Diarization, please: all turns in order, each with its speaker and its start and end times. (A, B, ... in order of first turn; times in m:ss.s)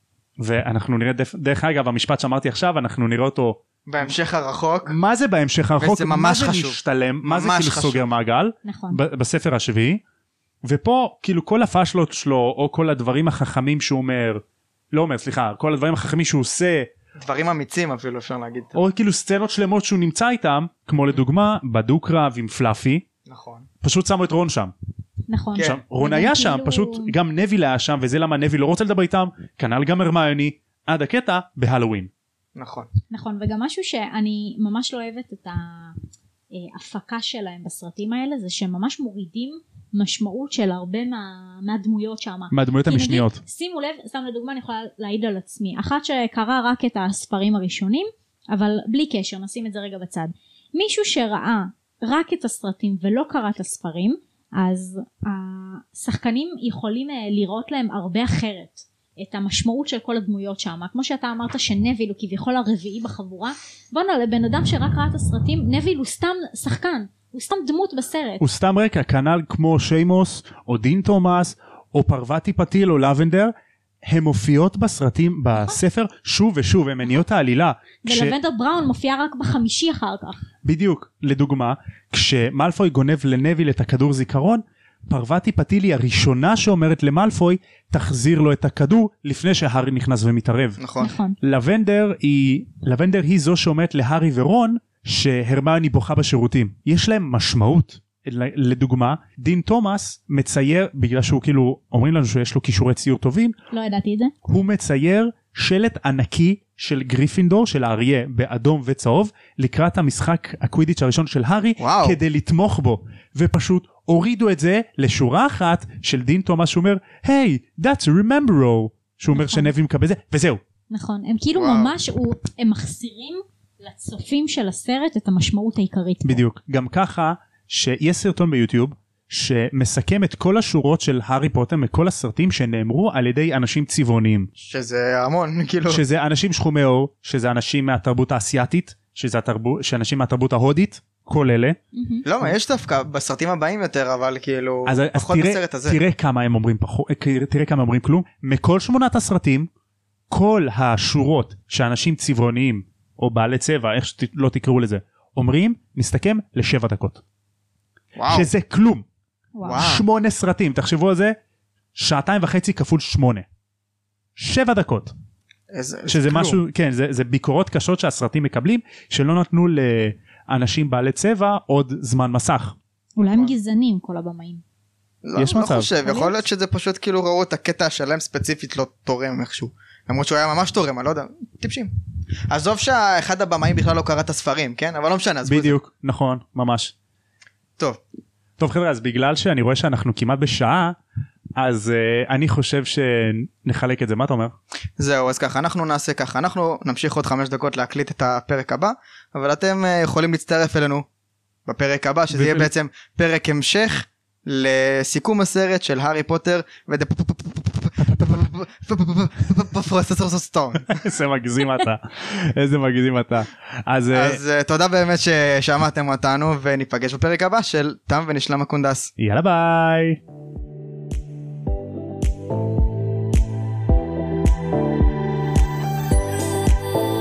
0:00.4-0:03.6 A
0:03.9-0:05.0 B
0:04.9-0:10.0 A
0:05.8-0:08.1 B
0:08.6-0:09.0 C
0:10.6-0:16.9 A
0:17.2-0:18.8 B
0:18.7-0:23.0 A
0:23.3-0:23.7 B
0:23.8-0:24.7 A
0:25.3-0:27.1 C
0:25.6-0:32.1 A
0:32.6-0:32.9 B
0:33.1-0:36.0 C
0:36.5-1:08.4 C
0:42.5-0:43.4 A
1:08.4-1:18.4 A
1:18.0-1:20.4 C
1:20.6-1:30.8 A
1:30.8-1:31.1 B
1:31.0-1:31.4 C
1:31.4-1:43.6 A
1:43.7-1:44.3 C
1:44.4-2:00.6 A
1:51.8-1:52.2 B
1:59.3-1:59.7 C
2:00.9-2:06.4 C
2:01.6-2:01.9 B
2:06.2-2:14.5 A
2:14.6-2:16.0 B
2:15.9-2:21.8 A
2:21.9-2:22.2 C
2:22.2-2:26.0 B
2:24.9-2:29.7 A
2:30.3-2:37.2 A
2:38.2-2:38.5 B
2:38.3-2:39.0 A
2:39.6-2:39.8 C
2:39.6-2:40.0 B
2:39.7-2:41.4 A
2:42.0-2:43.5 A
2:44.4-2:45.1 A
2:45.7-2:46.6 B
2:46.1-2:52.8 A
2:53.2-2:54.6 C
2:53.2-2:53.5 B
2:55.2-3:01.9 B
2:55.4-2:55.9 A
2:56.0-2:56.4 C
3:02.5-3:05.8 B
3:05.4-3:06.9 A
3:08.6-3:11.0 A
3:11.6-3:14.6 A
3:15.0-3:21.0 B
3:21.7-3:31.0 B
3:22.3-3:22.7 A
3:30.9-3:34.4 A
3:34.1-3:39.1 B
3:39.2-3:40.2 A